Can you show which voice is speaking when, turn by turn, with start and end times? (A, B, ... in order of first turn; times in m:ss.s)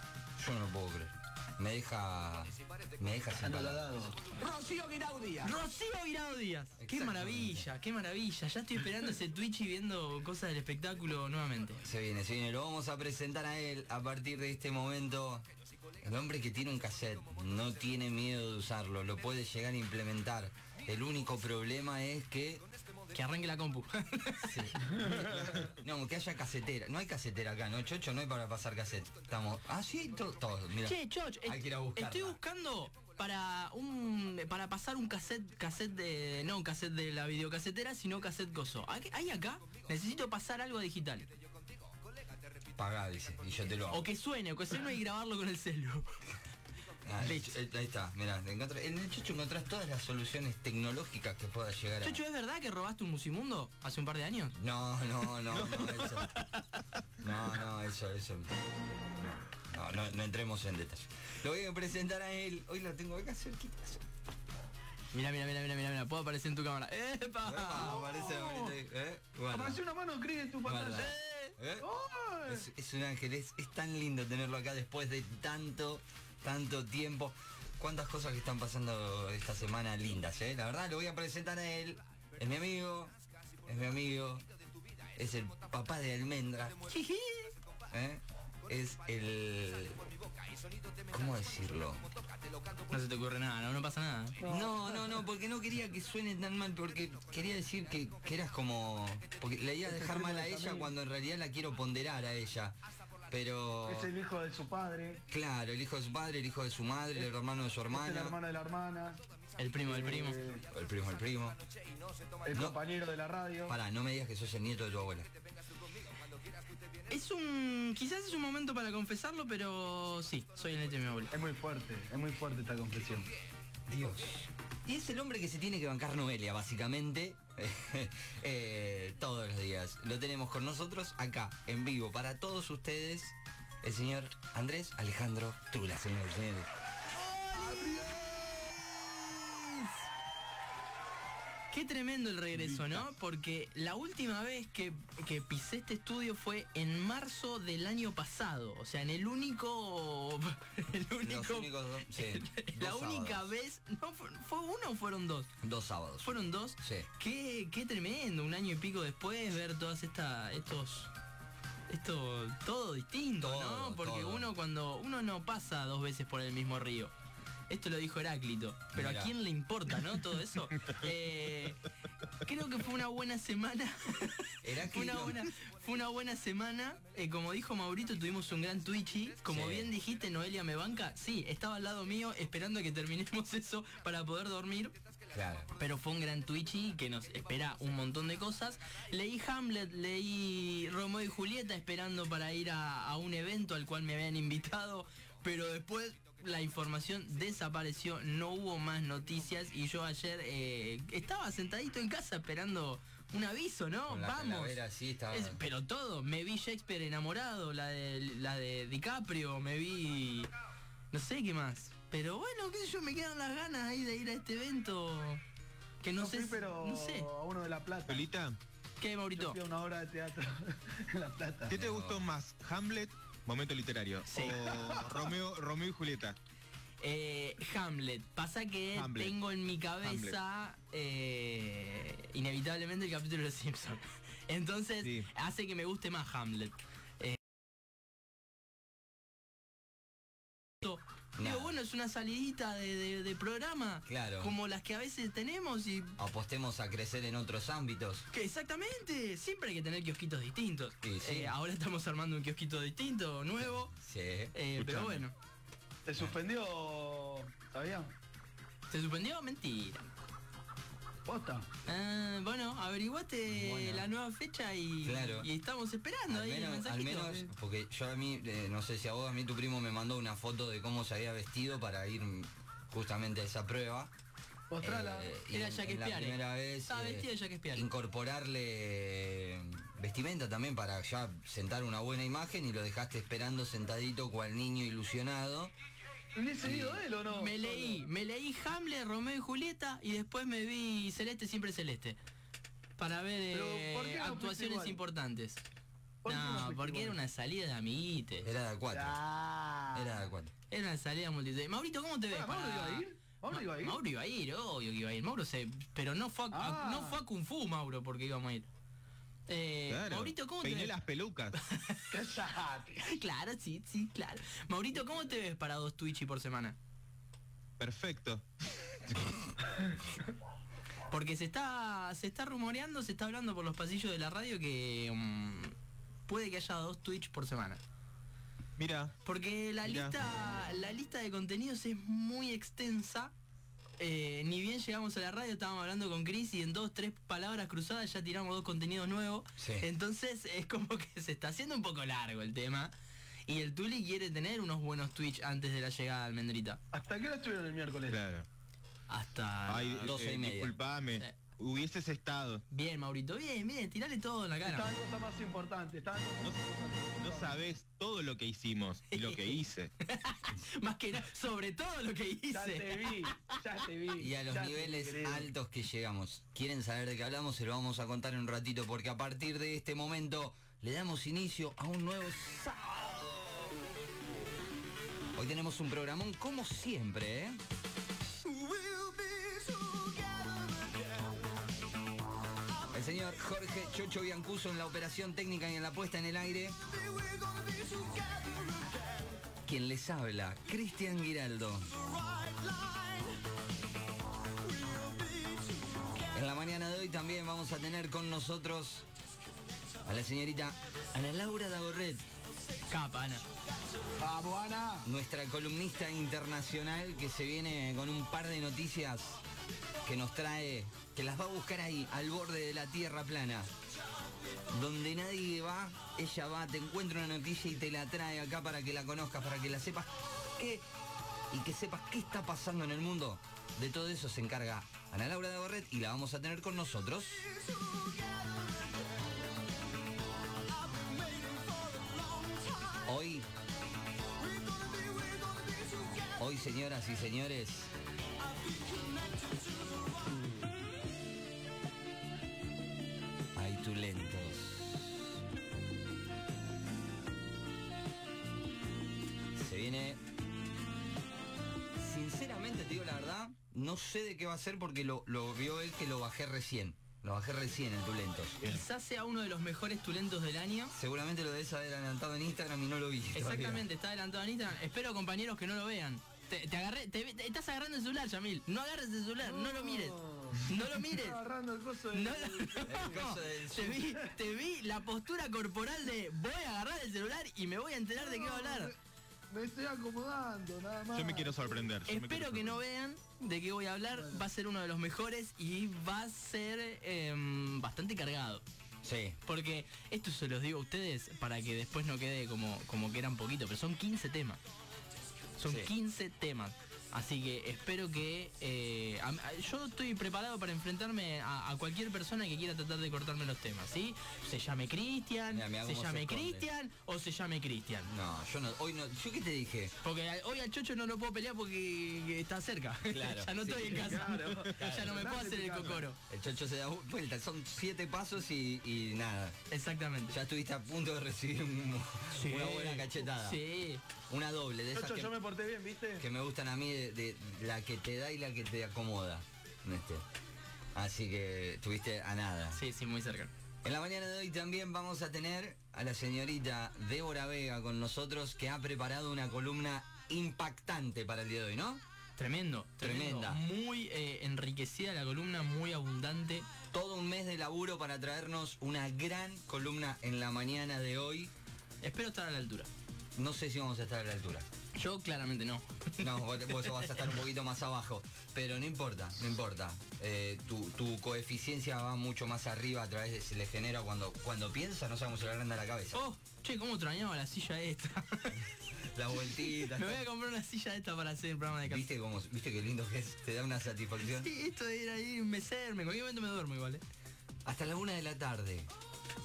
0:00.4-0:04.1 A
0:03.4-0:05.6 B
0:05.4-0:11.8 C
0:06.8-0:07.6 A
0:11.8-0:15.4 A
0:16.0-0:22.6 A
0:23.1-0:25.0 C
0:24.4-0:32.4 A
0:24.9-0:25.3 B
0:30.8-0:41.3 C
0:42.8-0:44.1 A
0:43.9-0:46.1 C
0:47.0-0:52.2 A
0:47.2-0:47.6 C
0:52.0-0:54.6 C
0:54.6-0:56.3 A
0:55.5-0:56.1 D
0:56.0-0:56.6 C
0:57.2-0:58.5 A
0:59.7-1:04.0 A
1:05.1-1:08.0 C
1:07.4-1:09.8 A
1:07.7-1:08.8 B
1:09.5-1:11.1 B
1:10.6-1:11.9 A
1:10.9-1:11.6 C
1:11.8-1:12.7 B
1:12.4-1:23.1 A
1:23.6-1:24.4 A
1:25.1-1:26.8 A
1:26.9-1:27.5 C
1:27.9-1:30.0 A
1:31.1-1:32.1 A
1:32.9-1:34.4 C
1:34.4-1:35.2 B
1:34.4-1:42.8 A
1:39.8-1:40.9 B
1:43.3-1:44.1 A
1:43.8-1:45.2 B
1:45.3-1:48.4 A
1:47.9-1:49.2 B
1:49.6-1:50.4 C
1:49.8-1:50.6 B
1:50.7-1:51.6 A
1:52.4-1:53.7 B
1:52.5-1:52.8 A
1:53.7-1:55.3 A
1:57.1-2:01.3 C
2:01.3-2:03.3 B
2:03.9-2:16.7 A
2:17.1-2:19.9 C
2:17.5-2:18.2 B
2:21.7-2:35.5 C
2:31.2-2:33.5 A
2:35.6-2:37.1 A
2:36.2-2:41.1 C
2:41.9-2:47.1 C
2:43.4-2:44.5 A
2:47.7-2:51.8 C
2:48.9-2:49.3 A
2:52.4-3:04.9 C
2:54.6-2:55.4 A
2:59.5-2:59.9 A
3:05.3-3:05.7 A
3:05.8-3:30.5 C
3:24.1-3:25.6 A
3:31.1-3:35.4 C
3:36.0-3:37.3 C
3:36.2-3:38.3 B
3:38.1-3:38.6 D
3:39.0-3:39.6 C
3:39.4-3:41.8 B
3:41.7-3:46.4 D
3:41.7-3:42.3 A
3:44.3-3:44.6 C
3:44.6-3:45.3 B
3:47.0-3:57.4 C
3:48.9-3:49.4 D
3:50.0-3:50.4 D
3:55.0-3:55.3 D
4:00.8-4:06.2 C
4:01.4-4:01.7 A
4:04.0-4:04.5 A
4:06.2-4:08.3 A
4:08.3-4:13.9 C
4:11.0-4:11.5 A
4:13.8-4:14.5 A
4:14.5-4:15.3 C
4:14.8-4:15.2 D
4:16.0-4:18.1 B
4:18.9-4:20.1 C
4:21.2-4:21.7 B
4:21.8-4:27.5 C
4:23.4-4:24.1 A
4:25.0-4:25.5 A
4:26.3-4:34.1 A
4:34.7-4:35.3 B
4:34.8-4:45.7 A
4:35.5-4:37.9 C
4:46.3-4:48.0 B
4:46.6-4:47.0 A
4:47.2-4:52.2 C
4:53.0-4:55.6 C
4:53.5-4:55.0 B
4:56.2-4:57.2 B
4:56.2-4:58.5 C
4:58.4-4:59.2 A
4:58.9-5:00.2 B
4:59.9-5:00.5 A
5:00.7-5:08.7 C
5:02.3-5:04.0 B
5:06.5-5:07.2 B
5:09.5-5:10.9 C
5:09.9-5:11.6 D
5:11.5-5:12.1 C
5:12.1-5:13.2 B
5:13.0-5:16.8 C
5:17.8-5:18.5 D
5:19.1-5:19.5 D
5:21.1-5:25.7 C
5:26.3-5:27.8 C
5:28.8-5:29.1 D
5:29.2-5:33.3 C
5:29.8-5:30.1 D
5:34.0-5:42.9 C
5:39.6-5:39.9 A
5:43.4-5:46.8 C
5:46.9-5:48.2 B
5:48.1-5:48.4 D
5:49.1-5:50.1 C
5:49.7-5:52.6 D
5:50.0-5:50.8 A
5:52.7-5:54.9 C
5:54.6-5:57.6 B
5:57.2-5:59.9 D
5:59.1-6:03.3 C
6:02.5-6:05.5 B
6:04.2-6:13.8 A
6:15.3-6:17.6 A
6:22.9-6:26.8 A
6:29.6-6:32.3 A
6:36.3-6:39.1 A
6:40.0-6:42.2 A
6:42.9-6:43.4 C
6:44.2-6:45.1 B
6:45.0-6:49.4 A
6:50.0-6:53.7 A
6:54.7-7:00.8 A
7:01.5-7:07.7 A
7:12.9-7:13.5 A
7:16.2-7:18.0 A
7:23.5-7:25.1 A
7:29.5-7:30.2 A
7:32.0-7:38.8 A
7:38.6-7:40.9 C
7:40.9-7:43.8 A
7:43.3-7:51.4 C
7:49.4-7:53.4 B
7:52.1-7:58.9 C
7:52.9-7:54.1 A
7:58.2-7:59.0 B
7:59.5-8:01.9 B
8:01.1-8:02.8 D
8:02.1-8:08.6 C
8:04.1-8:04.4 B
8:09.0-8:09.4 A
8:09.4-8:14.6 C
8:15.6-8:28.1 C
8:15.6-8:15.9 A
8:25.5-8:26.7 A
8:28.0-8:29.9 A
8:30.0-8:36.2 C
8:33.1-8:35.1 A
8:33.8-8:36.0 B
8:36.3-8:39.6 A
8:39.7-8:40.4 C
8:40.3-8:43.6 A
8:42.3-8:44.0 C
8:44.3-8:45.3 A
8:44.9-8:46.2 B
8:46.2-8:50.2 A
8:50.9-8:52.8 A
8:52.7-8:53.5 C
8:53.8-9:02.0 A
9:02.4-9:06.7 C
9:03.0-9:03.6 A
9:06.9-9:11.5 A
9:12.0-9:12.9 C
9:13.4-9:14.6 A
9:14.9-9:17.2 C
9:16.2-9:26.2 A
9:26.1-9:28.7 C
9:28.5-9:30.2 A
9:29.3-9:32.0 C
9:31.8-9:34.5 A
9:34.2-9:37.0 C
9:37.6-9:38.9 A